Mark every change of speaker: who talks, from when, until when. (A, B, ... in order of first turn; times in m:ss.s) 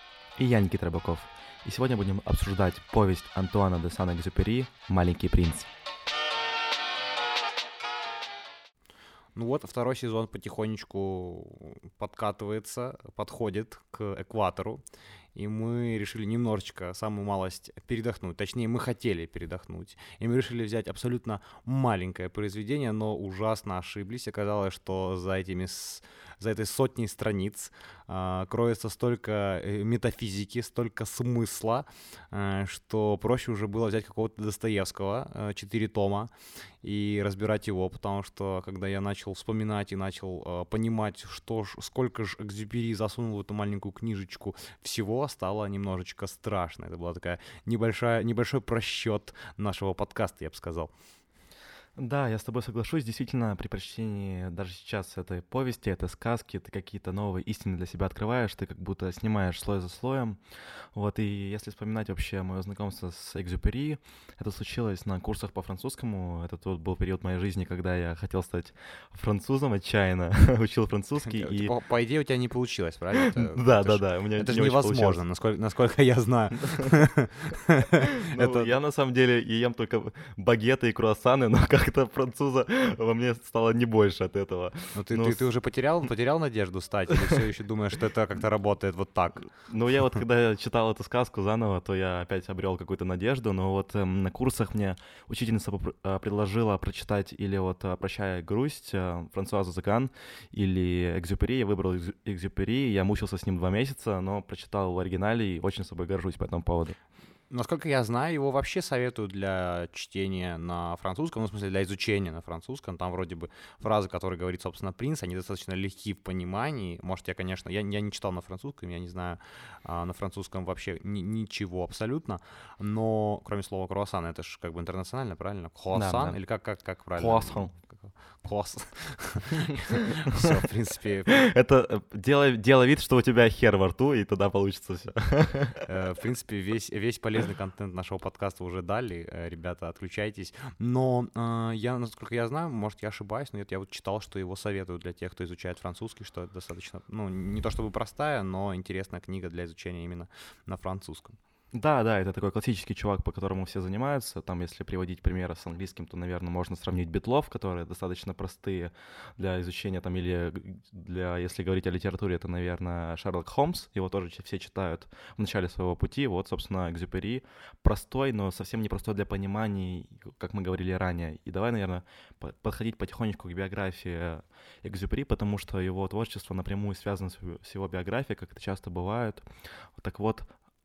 0:00.4-0:05.7 A
0:09.3-0:14.8 B
0:15.3-0:36.3 B
0:36.8-0:50.9 B
0:52.0-1:00.4 A
1:00.9-1:11.7 A
1:11.2-1:18.7 B
1:13.1-1:15.2 A
1:18.2-1:25.4 A
1:24.9-1:29.5 B
1:29.6-1:47.0 A
1:47.5-2:11.4 B
2:05.9-2:06.4 A
2:07.2-2:07.7 A
2:11.3-2:15.8 A
2:15.9-2:31.4 B
2:31.7-2:59.4 A
3:00.0-3:00.4 A